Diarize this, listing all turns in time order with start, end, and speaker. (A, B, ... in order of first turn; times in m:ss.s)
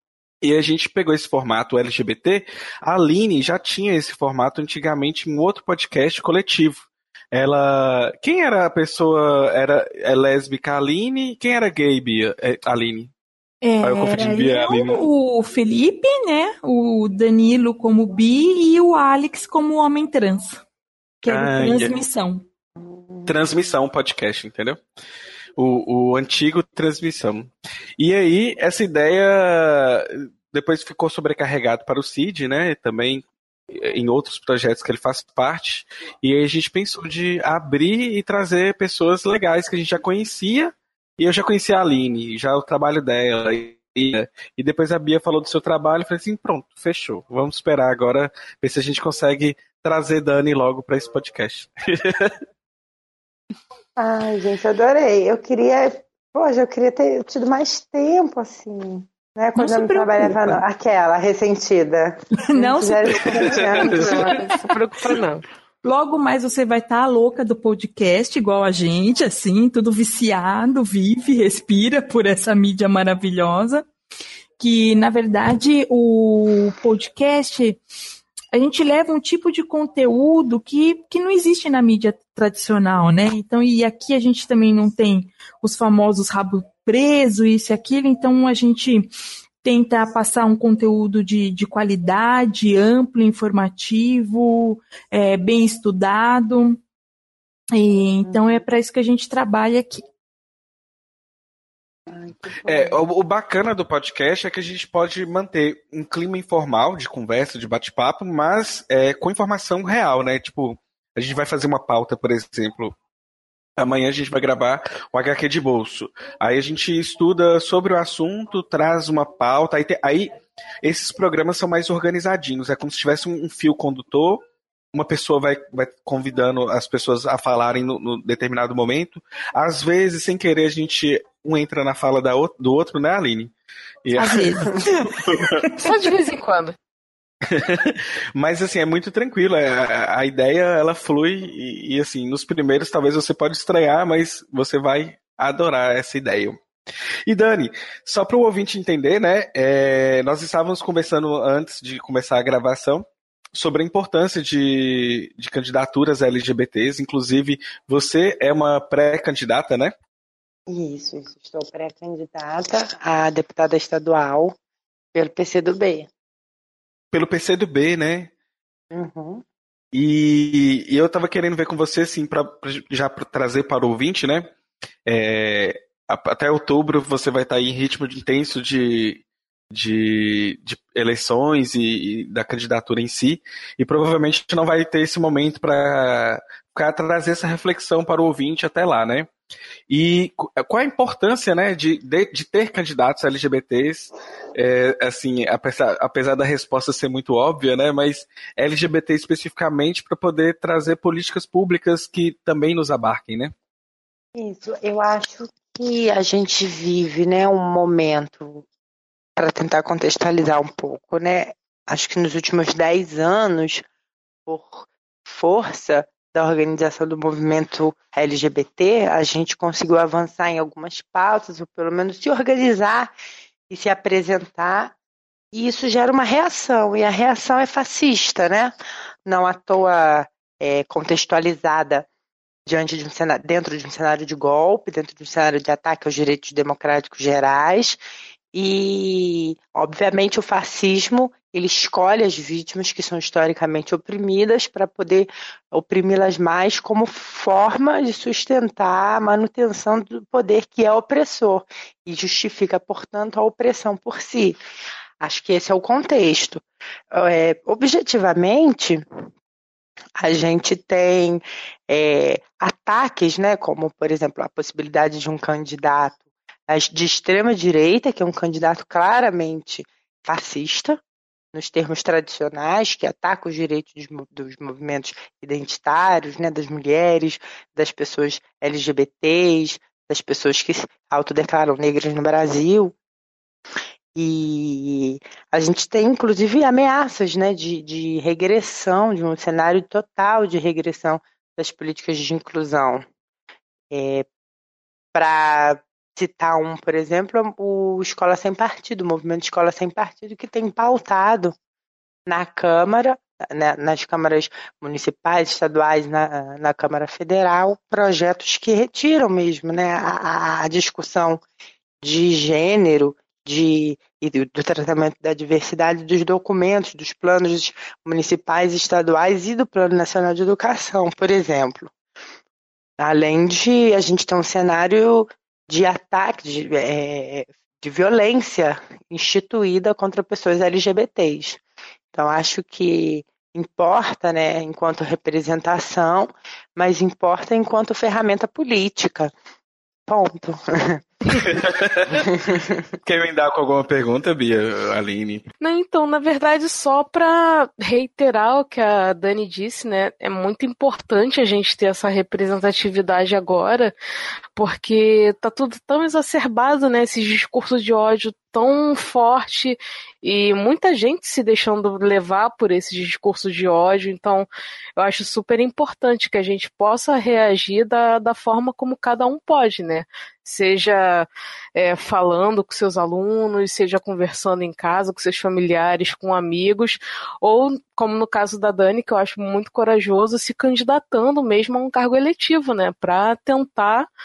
0:00.4-0:13.1 A
0:13.6-0:20.6 B
0:13.8-0:15.1 A
0:21.2-0:22.4 B
0:21.3-0:22.0 A
0:22.8-0:23.4 C
0:23.3-0:24.8 A
0:25.6-0:52.4 A
0:54.0-1:04.4 C
0:59.6-1:00.6 B
1:02.4-1:03.6 B
1:03.3-1:04.2 A
1:03.8-1:05.4 D
1:05.8-1:13.9 B
1:14.6-1:17.8 B
1:18.5-1:29.1 B
1:29.6-1:36.8 B
1:37.8-1:40.1 B
1:38.2-1:38.6 C
1:42.1-1:43.0 C
1:42.7-1:53.0 A
1:53.8-2:13.5 A
2:14.0-2:15.5 A
2:14.2-2:15.8 B
2:15.8-2:16.8 D
2:17.5-2:26.6 A
2:27.3-2:39.9 A
2:40.7-2:44.6 C
2:45.1-2:46.1 C
2:47.1-2:48.3 A
2:48.9-2:49.4 C
2:49.9-2:54.5 A
2:55.1-3:09.3 A
3:09.9-3:23.5 A
3:24.4-3:28.6 C
3:29.4-3:33.8 C
3:34.5-3:43.1 C
3:43.7-3:45.0 C
3:45.5-3:48.7 C
3:49.3-3:52.1 C
3:52.7-3:58.0 C
3:58.5-4:14.6 C
4:15.2-4:19.0 C
4:20.2-4:26.2 C
4:26.7-4:31.0 C
4:31.5-4:43.0 C
4:44.2-4:53.1 C
4:53.9-4:54.2 C
4:55.1-5:01.6 C
5:02.3-5:11.4 C
5:12.0-5:21.9 C
5:23.0-5:31.6 C
5:32.1-5:39.3 C
5:40.1-5:41.1 C
5:41.3-5:42.3 A
5:43.0-5:45.5 A
5:45.6-5:53.9 D
5:54.6-6:24.1 D